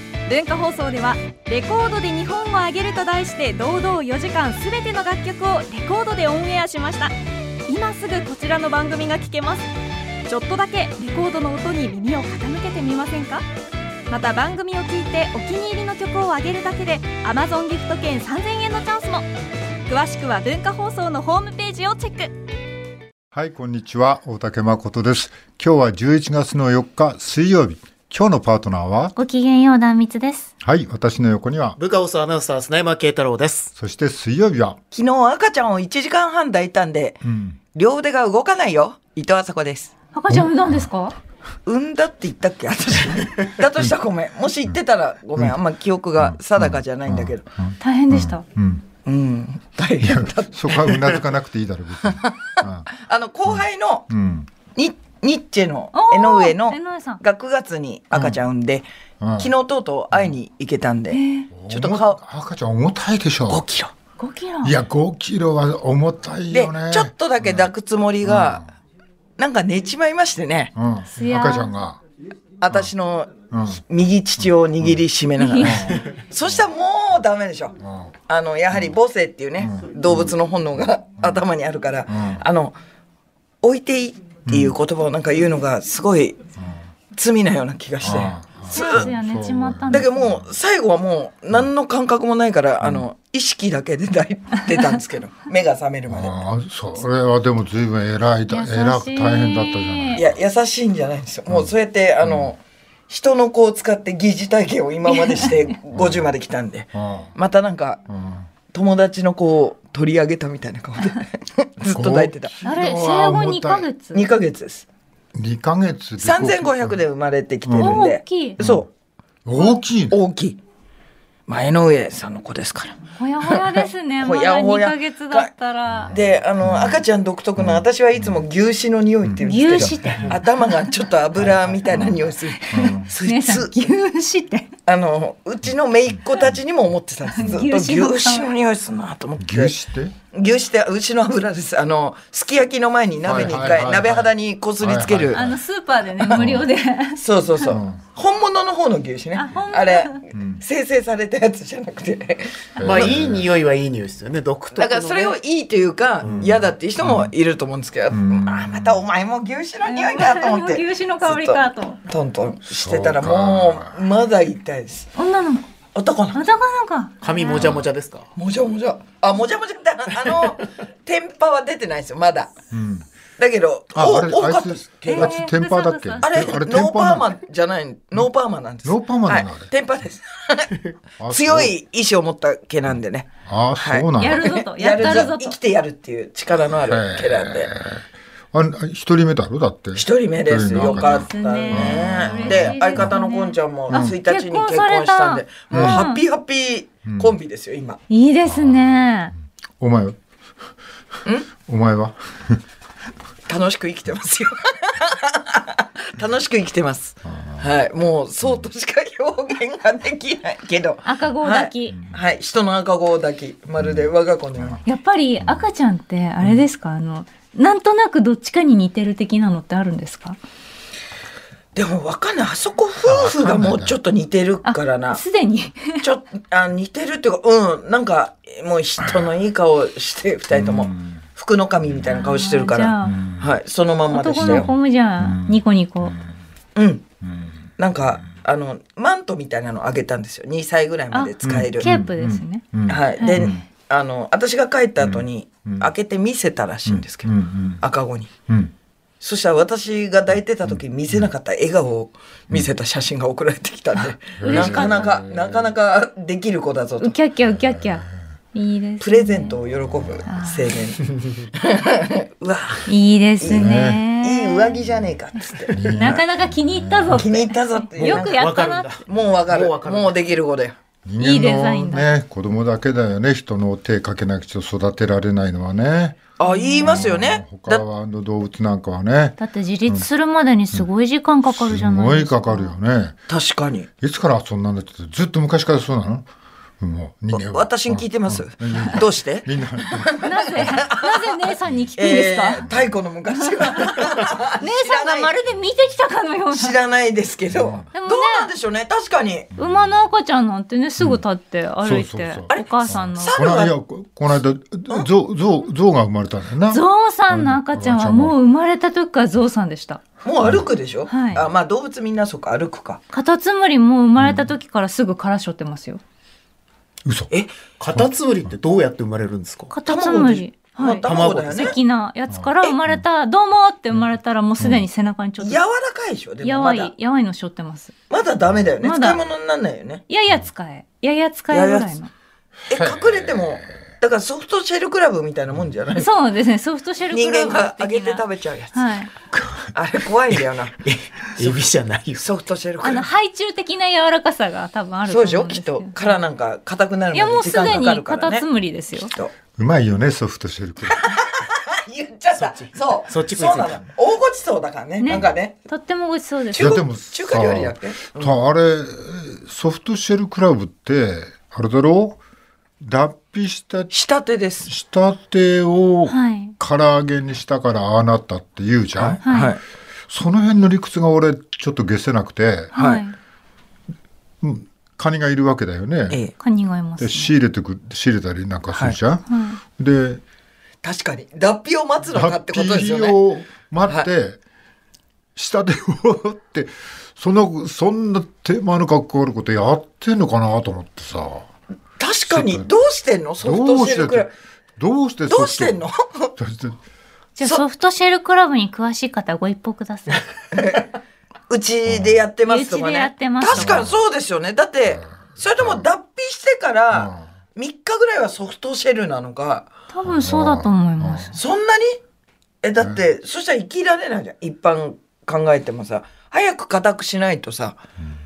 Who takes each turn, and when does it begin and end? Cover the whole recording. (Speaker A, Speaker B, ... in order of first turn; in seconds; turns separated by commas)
Speaker A: 0.3-7.1, Speaker A: 7.7-9.7, Speaker A: 10.3-13.4, Speaker A: 14.1-19.2, Speaker A: 19.9-22.3, Speaker B: 23.3-29.1, Speaker C: 29.1-30.5, Speaker B: 30.6-31.8, Speaker D: 31.8-33.7, Speaker B: 33.7-34.8, Speaker E: 34.9-39.9, Speaker B: 37.2-37.6, Speaker C: 40.1-41.1, Speaker B: 40.3-40.9, Speaker E: 41.6-47.4, Speaker B: 46.2-48.8, Speaker C: 47.8-48.4, Speaker E: 49.0-51.2, Speaker B: 50.0-52.9, Speaker E: 52.6-54.1, Speaker B: 53.5-54.5, Speaker E: 54.7-58.9, Speaker C: 55.9-57.2, Speaker B: 58.1-58.4, Speaker B: 59.2-59.5, Speaker E: 59.4-62.2, Speaker B: 60.1-60.4, Speaker C: 61.1-61.5, Speaker B: 61.5-63.6, Speaker E: 63.5-63.9, Speaker C: 64.2-64.8, Speaker B: 64.6-67.7, Speaker E: 66.5-68.6, Speaker B: 68.2-68.7, Speaker E: 69.4-70.7, Speaker B: 70.7-72.0, Speaker C: 71.1-71.7, Speaker E: 72.6-77.8, Speaker B: 73.5-73.8, Speaker C: 75.4-75.8, Speaker B: 75.6-76.6, Speaker B: 77.8-78.1, Speaker E: 78.3-82.8, Speaker B: 79.6-80.3, Speaker B: 82.1-82.4, Speaker E: 83.6-86.4, Speaker B: 84.5-84.8, Speaker E: 87.1-89.1, Speaker B: 88.0-90.5, Speaker C: 88.7-90.1, Speaker E: 89.9-96.3, Speaker B: 96.1-100.4, Speaker C: 98.5-100.2, Speaker E: 100.2-108.0, Speaker B: 101.5-102.5, Speaker C: 105.1-105.5, Speaker B: 105.9-106.3, Speaker B: 106.9-107.3, Speaker B: 108.1-108.5, Speaker E: 108.7-112.6, Speaker B: 111.9-113.9, Speaker C: 112.6-114.3, Speaker E: 114.1-114.8, Speaker B: 115.3-117.0, Speaker E: 116.2-118.9, Speaker B: 117.6-118.0, Speaker C: 117.8-118.6, Speaker B: 118.6-118.9, Speaker B: 119.4-120.2, Speaker E: 119.6-120.6, Speaker E: 121.5-125.5, Speaker C: 123.2-126.1, Speaker B: 125.9-127.0, Speaker E: 126.1-133.9, Speaker B: 127.6-128.4, Speaker B: 129.2-130.3, Speaker C: 129.4-130.9, Speaker B: 131.9-133.1, Speaker C: 132.7-134.7, Speaker E: 134.8-139.8, Speaker C: 137.2-138.5, Speaker B: 139.4-140.1, Speaker E: 140.3-145.4, Speaker B: 143.2-145.6, Speaker C: 145.3-147.8, Speaker E: 146.2-146.5, Speaker B: 146.3-146.7, Speaker E: 147.2-153.1, Speaker B: 147.7-148.0, Speaker C: 149.3-150.2, Speaker B: 150.3-150.6, Speaker B: 152.8-153.5, Speaker D: 152.8-155.4, Speaker E: 154.7-165.1, Speaker D: 156.2-156.5, Speaker B: 156.2-157.3, Speaker B: 158.1-159.0, Speaker C: 159.8-162.0, Speaker B: 162.8-164.0, Speaker C: 165.1-165.6, Speaker E: 165.9-166.4, Speaker C: 166.3-167.8, Speaker D: 167.2-168.2, Speaker B: 167.5-167.8, Speaker E: 168.3-172.5, Speaker B: 172.7-173.0, Speaker E: 173.4-175.4, Speaker B: 173.9-177.3, Speaker C: 175.0-176.3, Speaker E: 176.2-187.7, Speaker B: 178.8-179.7, Speaker B: 181.2-181.7, Speaker B: 183.4-185.3, Speaker C: 184.2-185.6, Speaker B: 186.8-193.1, Speaker E: 189.9-198.0, Speaker C: 190.7-196.2, Speaker B: 193.9-194.1, Speaker B: 195.7-196.1, Speaker B: 197.1-197.4, Speaker C: 198.1-199.3, Speaker B: 198.4-199.0, Speaker B: 199.8-200.2, Speaker B: 201.7-202.6, Speaker E: 203.5-214.8, Speaker B: 207.3-207.6, Speaker C: 211.0-212.0, Speaker B: 213.8-214.8, Speaker C: 214.8-220.4, Speaker E: 221.7-225.2, Speaker B: 223.0-224.0, Speaker C: 224.6-226.1, Speaker E: 226.0-234.7, Speaker B: 230.5-231.2, Speaker B: 231.9-232.1, Speaker C: 232.1-233.2, Speaker B: 233.1-233.5, Speaker C: 234.1-236.2, Speaker B: 234.3-236.1, Speaker E: 236.7-237.0, Speaker E: 237.8-241.9, Speaker C: 241.1-242.6, Speaker B: 241.4-243.6, Speaker E: 242.9-248.3, Speaker C: 243.2-243.5, Speaker B: 245.0-245.9, Speaker B: 246.8-247.8, Speaker E: 249.2-257.1, Speaker B: 250.7-251.3, Speaker B: 254.4-255.7, Speaker C: 254.4-255.2, Speaker C: 257.0-259.6, Speaker B: 257.6-257.9, Speaker E: 259.0-262.9, Speaker B: 259.8-260.2, Speaker C: 260.2-260.7, Speaker C: 262.9-264.8, Speaker E: 263.4-265.7, Speaker B: 263.4-264.0, Speaker B: 264.8-265.1, Speaker B: 265.7-267.3, Speaker C: 265.8-269.0, Speaker E: 267.1-268.4, Speaker D: 268.0-270.2, Speaker E: 269.1-270.8, Speaker B: 271.1-276.2, Speaker C: 271.2-272.1, Speaker E: 276.4-277.8, Speaker C: 276.4-277.1, Speaker B: 276.8-280.1, Speaker C: 279.4-282.7, Speaker B: 281.5-283.2, Speaker E: 283.3-283.9, Speaker B: 284.0-286.3, Speaker B: 286.8-290.3, Speaker E: 287.3-291.4, Speaker C: 290.2-292.7, Speaker E: 292.0-295.3, Speaker C: 293.6-296.8, Speaker E: 296.5-299.5, Speaker B: 297.5-297.9, Speaker C: 297.9-298.5, Speaker B: 299.5-299.9, Speaker C: 299.6-303.4, Speaker B: 301.8-308.4, Speaker E: 303.2-303.7, Speaker C: 306.7-310.0, Speaker E: 310.2-313.0, Speaker C: 311.1-311.4, Speaker C: 313.1-316.0, Speaker B: 314.2-314.5, Speaker B: 317.0-317.3, Speaker D: 317.8-319.7, Speaker C: 319.7-325.6, Speaker E: 319.8-321.8, Speaker D: 320.9-321.8, Speaker B: 322.3-323.0, Speaker B: 324.6-324.9, Speaker E: 325.4-326.9, Speaker C: 326.4-327.9, Speaker E: 328.1-330.0, Speaker C: 328.8-329.2, Speaker C: 330.1-332.1, Speaker E: 331.5-331.9, Speaker E: 332.7-336.1, Speaker B: 332.7-333.7, Speaker C: 335.9-339.1, Speaker E: 337.1-338.8, Speaker E: 339.7-340.8, Speaker D: 340.8-342.2, Speaker E: 342.2-343.1, Speaker C: 342.8-345.9, Speaker E: 345.1-348.4, Speaker C: 347.1-349.1, Speaker B: 349.6-351.1, Speaker E: 350.9-355.6, Speaker D: 352.3-353.8, Speaker C: 355.0-356.8, Speaker E: 356.5-358.3, Speaker B: 356.6-362.2, Speaker B: 362.8-363.9, Speaker E: 363.9-364.7, Speaker B: 364.6-369.2, Speaker C: 366.1-366.5, Speaker E: 369.0-369.6, Speaker C: 369.2-369.6, Speaker B: 370.1-372.7, Speaker C: 372.7-373.2, Speaker E: 372.7-373.0, Speaker B: 374.4-376.2, Speaker C: 376.4-377.3, Speaker B: 377.0-380.2, Speaker C: 379.3-379.6, Speaker E: 380.8-383.2, Speaker B: 382.1-384.4, Speaker B: 385.4-391.5, Speaker E: 392.0-394.3, Speaker B: 392.3-392.7, Speaker B: 393.4-395.8, Speaker E: 395.3-396.3, Speaker B: 396.4-396.8, Speaker C: 397.4-400.2, Speaker E: 400.5-400.9, Speaker E: 401.5-409.7, Speaker B: 401.9-402.2, Speaker C: 402.4-403.9, Speaker B: 403.5-404.0, Speaker B: 405.6-405.8, Speaker B: 406.9-407.3, Speaker C: 409.9-411.4, Speaker B: 410.0-411.3, Speaker E: 411.3-412.0, Speaker E: 412.6-417.8